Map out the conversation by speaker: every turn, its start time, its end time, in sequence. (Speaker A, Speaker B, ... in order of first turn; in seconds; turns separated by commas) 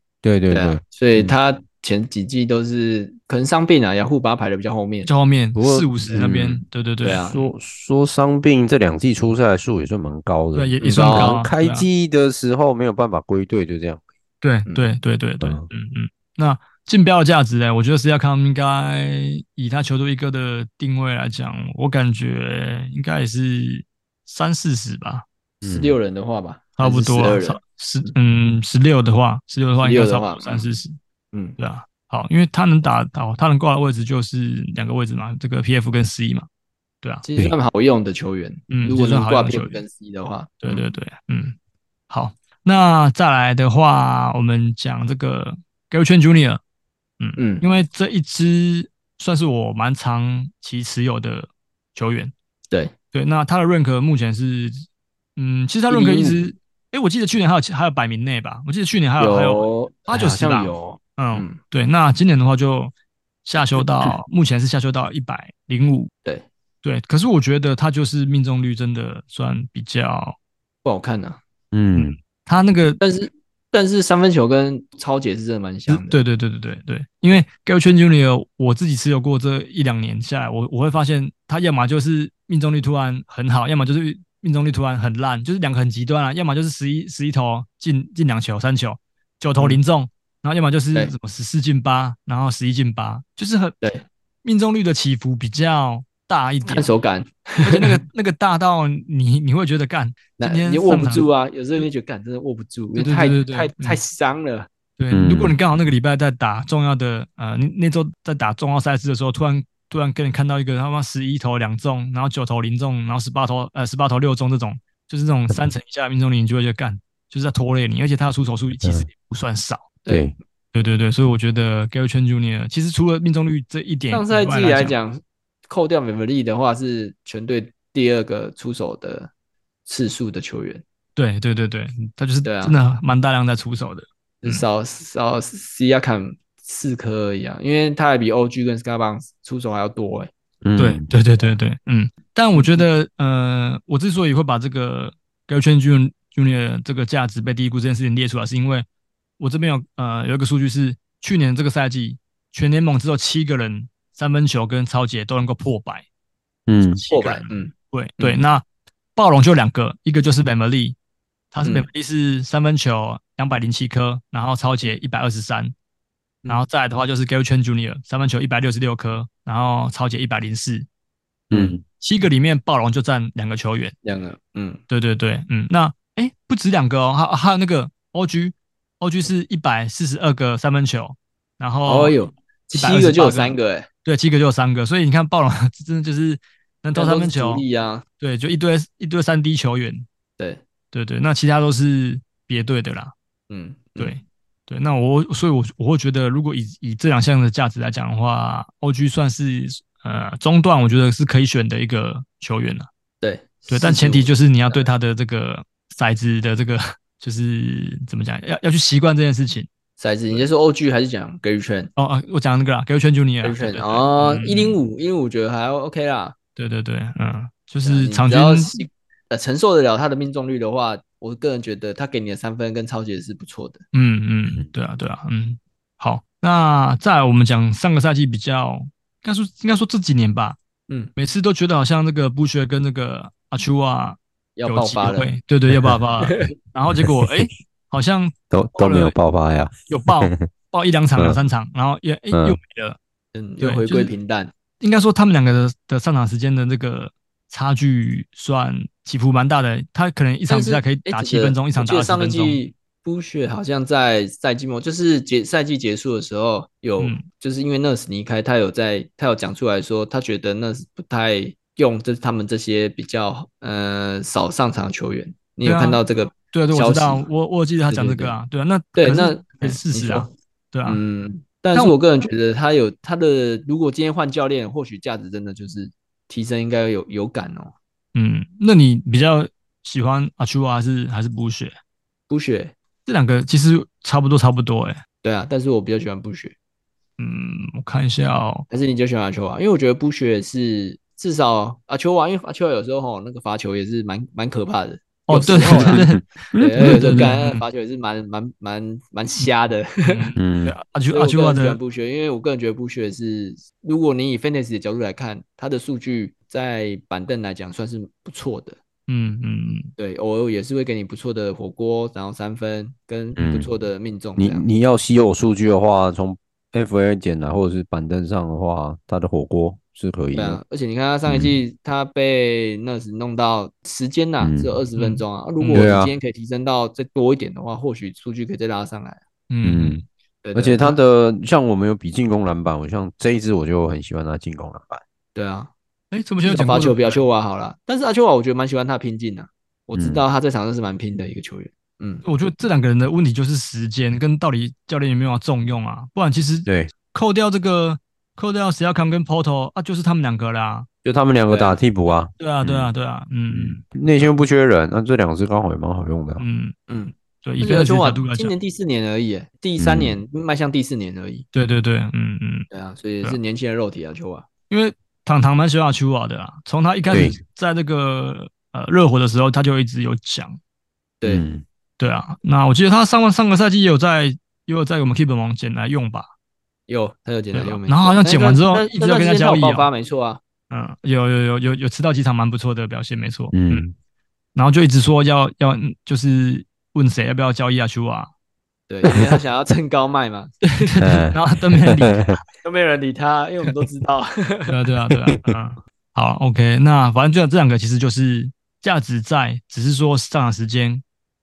Speaker A: 0.2-1.3, Speaker B: 0.5-5.1, Speaker C: 5.0-7.3, Speaker A: 5.5-14.0, Speaker B: 7.0-7.4, Speaker C: 10.5-11.8, Speaker B: 10.8-11.4, Speaker C: 14.4-25.2, Speaker A: 15.4-15.7, Speaker A: 25.6-25.9, Speaker B: 25.6-28.1, Speaker C: 26.8-30.9, Speaker B: 29.8-30.7, Speaker C: 31.6-36.5, Speaker B: 37.2-40.9, Speaker C: 38.7-39.8, Speaker C: 40.6-41.5, Speaker C: 42.1-46.6, Speaker C: 47.2-52.3, Speaker B: 47.4-47.6, Speaker C: 53.1-54.8, Speaker C: 55.4-62.9, Speaker B: 55.9-56.4, Speaker B: 59.2-61.6, Speaker C: 63.4-66.1, Speaker B: 63.8-64.1, Speaker C: 66.8-70.3, Speaker B: 70.8-71.4, Speaker A: 71.7-72.2, Speaker C: 72.0-73.0, Speaker B: 73.0-76.2, Speaker C: 75.9-93.8, Speaker C: 94.4-96.9, Speaker B: 96.7-98.0, Speaker C: 97.6-101.3, Speaker B: 100.4-104.7, Speaker C: 102.9-104.0, Speaker C: 105.0-119.9, Speaker A: 105.1-105.5, Speaker A: 120.1-120.3, Speaker C: 120.7-125.0, Speaker B: 124.1-129.3, Speaker B: 129.9-130.8, Speaker C: 131.2-134.6, Speaker B: 132.4-132.8, Speaker B: 134.4-140.3, Speaker A: 140.6-141.1, Speaker C: 140.8-148.8, Speaker B: 142.5-142.8, Speaker C: 149.4-156.1, Speaker A: 156.7-157.0, Speaker C: 156.9-158.6, Speaker B: 157.0-158.4, Speaker C: 159.2-160.9, Speaker C: 161.5-165.7, Speaker C: 166.5-170.9, Speaker A: 171.5-171.8, Speaker C: 171.9-173.9, Speaker B: 174.0-174.8, Speaker C: 174.9-182.2, Speaker B: 181.8-183.9, Speaker C: 182.7-187.6, Speaker B: 186.9-188.0, Speaker C: 188.2-190.1, Speaker C: 190.9-193.1, Speaker B: 193.5-194.1, Speaker C: 194.0-202.9, Speaker B: 203.2-204.9, Speaker C: 203.7-209.7, Speaker B: 210.0-211.9, Speaker C: 212.0-214.8, Speaker B: 213.4-216.3, Speaker C: 216.6-218.8, Speaker B: 217.8-223.8, Speaker C: 223.9-230.6, Speaker C: 231.2-239.2, Speaker B: 234.6-235.3, Speaker B: 236.2-236.5, Speaker A: 238.5-240.5, Speaker C: 239.9-243.0, Speaker A: 242.3-242.6, Speaker B: 243.3-244.5, Speaker C: 243.6-244.1, Speaker C: 244.8-252.6, Speaker B: 250.5-267.3, Speaker C: 265.6-271.0, Speaker B: 267.9-268.4, Speaker B: 268.9-270.3, Speaker B: 270.9-277.7, Speaker C: 278.1-281.8, Speaker B: 282.3-282.7, Speaker C: 283.1-285.0, Speaker B: 285.2-286.5, Speaker C: 287.2-288.6, Speaker B: 288.7-296.0, Speaker C: 295.3-297.6, Speaker A: 295.7-297.3, Speaker B: 296.6-300.3, Speaker C: 300.0-301.8, Speaker A: 300.4-300.8, Speaker B: 301.1-308.8, Speaker C: 309.1-309.9, Speaker B: 310.0-314.6, Speaker A: 313.4-313.7, Speaker A: 314.4-320.6, Speaker B: 320.3-329.2, Speaker A: 321.3-321.6, Speaker A: 324.4-324.7, Speaker C: 325.0-325.9, Speaker A: 325.7-326.1, Speaker C: 329.5-330.0, Speaker A: 329.6-330.0, Speaker B: 330.4-331.0, Speaker A: 330.5-335.0, Speaker B: 335.3-335.7, Speaker C: 336.1-337.2, Speaker B: 336.4-342.2, Speaker A: 339.9-340.2, Speaker C: 342.2-350.9, Speaker A: 351.0-352.9, Speaker B: 351.5-351.8, Speaker C: 352.4-354.3, Speaker A: 353.5-356.4, Speaker C: 356.4-356.7, Speaker B: 356.9-361.4, Speaker C: 357.4-358.5, Speaker A: 359.8-360.2, Speaker C: 361.5-362.7, Speaker B: 362.7-364.5, Speaker C: 364.7-370.6, Speaker A: 367.1-367.4, Speaker A: 371.2-371.6, Speaker C: 372.0-376.3, Speaker B: 376.9-380.4, Speaker C: 377.5-379.9, Speaker C: 380.7-383.9, Speaker A: 383.5-383.9, Speaker C: 384.5-388.3, Speaker B: 388.9-390.6, Speaker C: 390.6-392.4, Speaker A: 391.0-391.4, Speaker A: 391.9-392.4, Speaker B: 392.6-394.7, Speaker C: 394.7-401.0